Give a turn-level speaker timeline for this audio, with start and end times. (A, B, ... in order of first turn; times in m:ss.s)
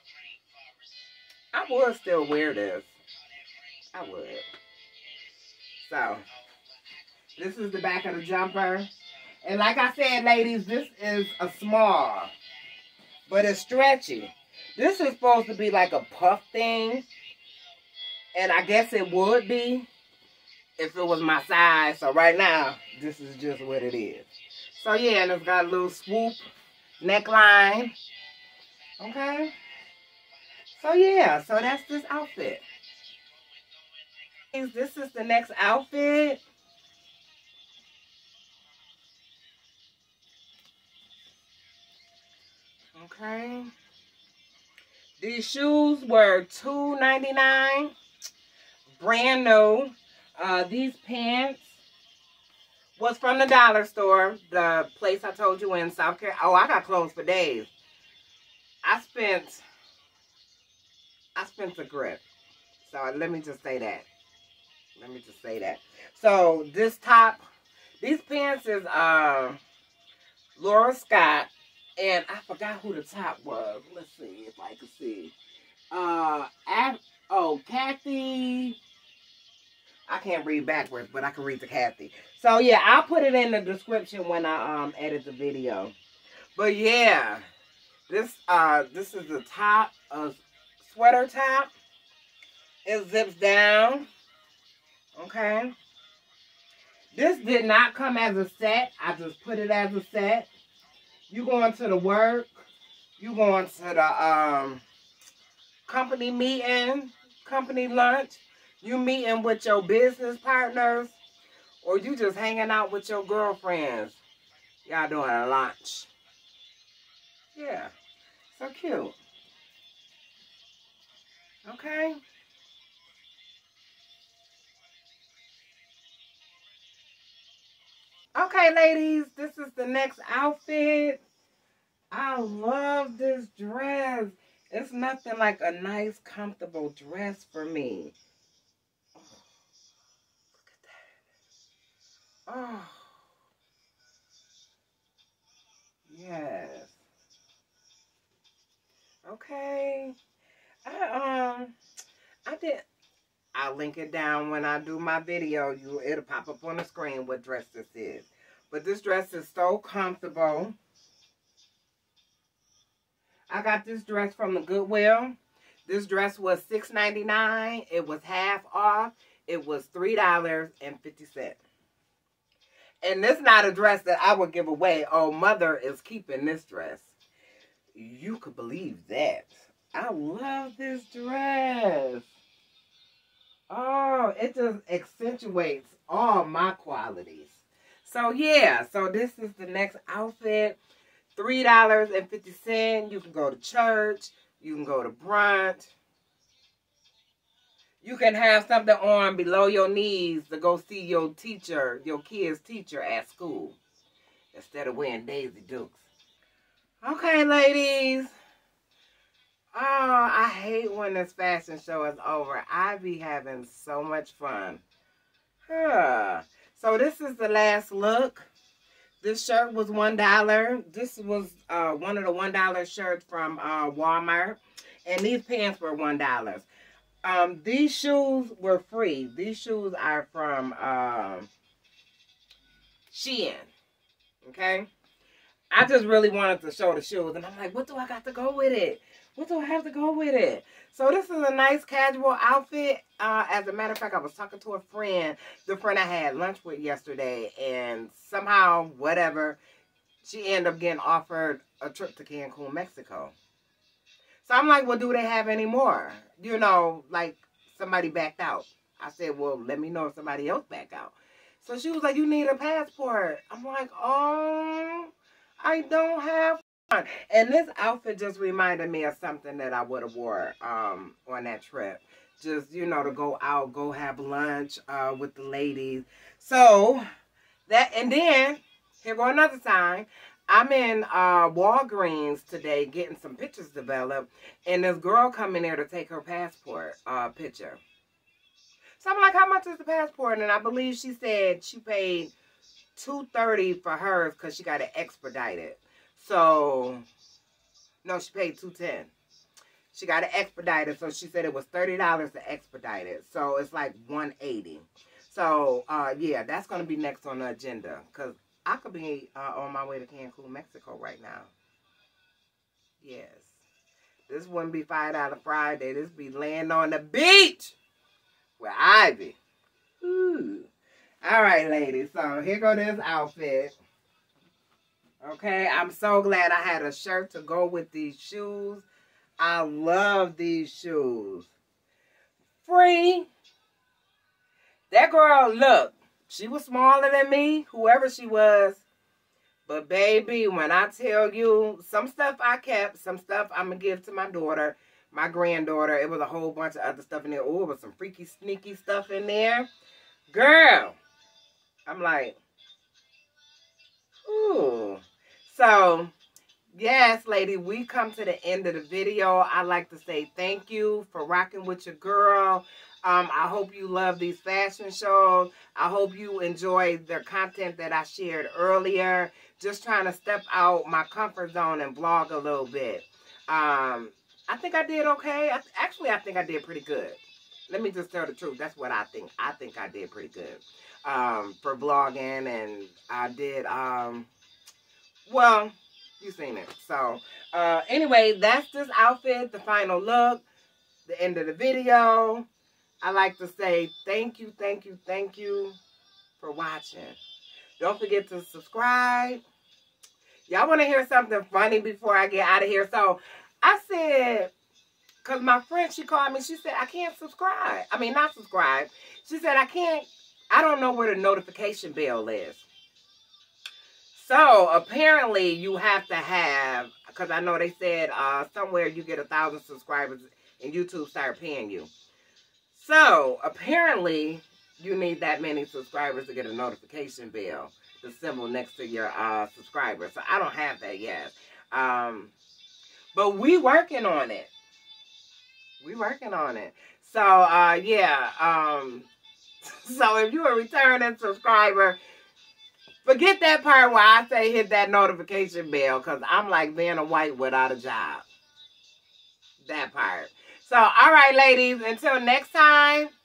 0:01.5-0:02.9 A
0:03.9-0:04.4 A
0:05.8-0:06.2 A
0:07.4-0:08.9 A
0:09.4-0:12.3 A
0:13.3-0:17.1 A
0:18.4-0:19.9 A
0:20.8-0:26.4 A
0:27.0-0:27.9 A
0:29.0-0:29.5 A
0:30.8-0:32.6 A
0:34.5-0:36.4 A
0:43.0-0:43.7 A
0:45.2-0:47.9 A
0:48.9-0:51.7 A
0:53.0-0:57.7 A
0:58.8-0:59.6 A
1:01.4-1:02.2 A
1:02.8-1:04.1 A
1:05.0-1:07.4 A
1:08.0-1:09.6 A
1:10.6-1:15.3 A
1:15.9-1:18.8 A
1:20.1-1:25.9 A
1:26.6-1:27.4 A
1:28.1-1:31.7 A
1:32.8-1:34.1 A
1:35.2-1:35.7 A
1:37.1-1:40.5 A
1:41.3-1:42.7 A
1:43.2-1:44.8 A
1:45.9-1:51.2 A
1:51.8-1:54.2 A
1:54.8-1:56.1 A
1:57.6-1:57.9 A
1:58.5-1:59.2 A
2:01.6-2:02.2 A
2:08.4-2:11.2 A
2:12.1-2:18.1 A
2:20.6-2:20.9 A
2:22.5-2:23.0 A
2:26.1-2:26.9 A
2:29.2-2:30.2 A
2:30.8-2:31.7 A
2:32.5-2:32.8 A
2:33.6-2:40.8 A
2:43.5-2:45.4 A
2:45.9-2:51.6 A
2:53.0-2:57.1 A
2:58.0-3:02.3 A
3:03.7-3:10.8 A
3:11.4-3:15.9 A
3:18.0-3:23.8 A
3:24.5-3:26.0 A
3:27.0-3:28.3 A
3:29.7-3:34.8 A
3:35.7-3:38.5 A
3:39.2-3:46.7 A
3:47.2-3:51.5 A
3:53.1-3:53.7 A
3:54.4-3:54.9 A
3:55.7-4:09.6 A
4:10.2-4:13.3 A
4:14.4-4:37.0 A
4:37.7-4:47.8 A
4:49.0-4:52.3 A
4:53.0-4:57.0 A
4:58.0-4:59.1 A
4:59.9-5:11.5 A
5:13.0-5:13.6 A
5:14.3-5:17.8 A
5:18.6-5:19.4 A
5:20.0-5:20.7 A
5:21.2-5:23.8 A
5:25.2-5:28.9 A
5:29.4-5:31.5 A
5:32.6-5:33.3 A
5:34.9-5:38.8 A
5:39.7-5:49.7 A
5:50.3-5:51.0 A
5:51.9-5:52.4 A
5:54.3-5:56.1 A
5:56.7-6:17.2 A
6:17.7-6:24.3 A
6:25.3-6:30.4 A
6:31.1-6:32.5 A
6:33.0-6:35.8 A
6:36.4-6:37.2 A
6:37.8-6:39.4 A
6:40.5-6:44.5 A
6:45.2-6:52.6 A
6:54.1-7:01.9 A
7:02.7-7:12.3 A
7:13.1-7:14.5 A
7:15.8-7:19.1 A
7:19.7-7:22.0 A
7:23.0-7:28.2 A
7:29.6-7:33.1 A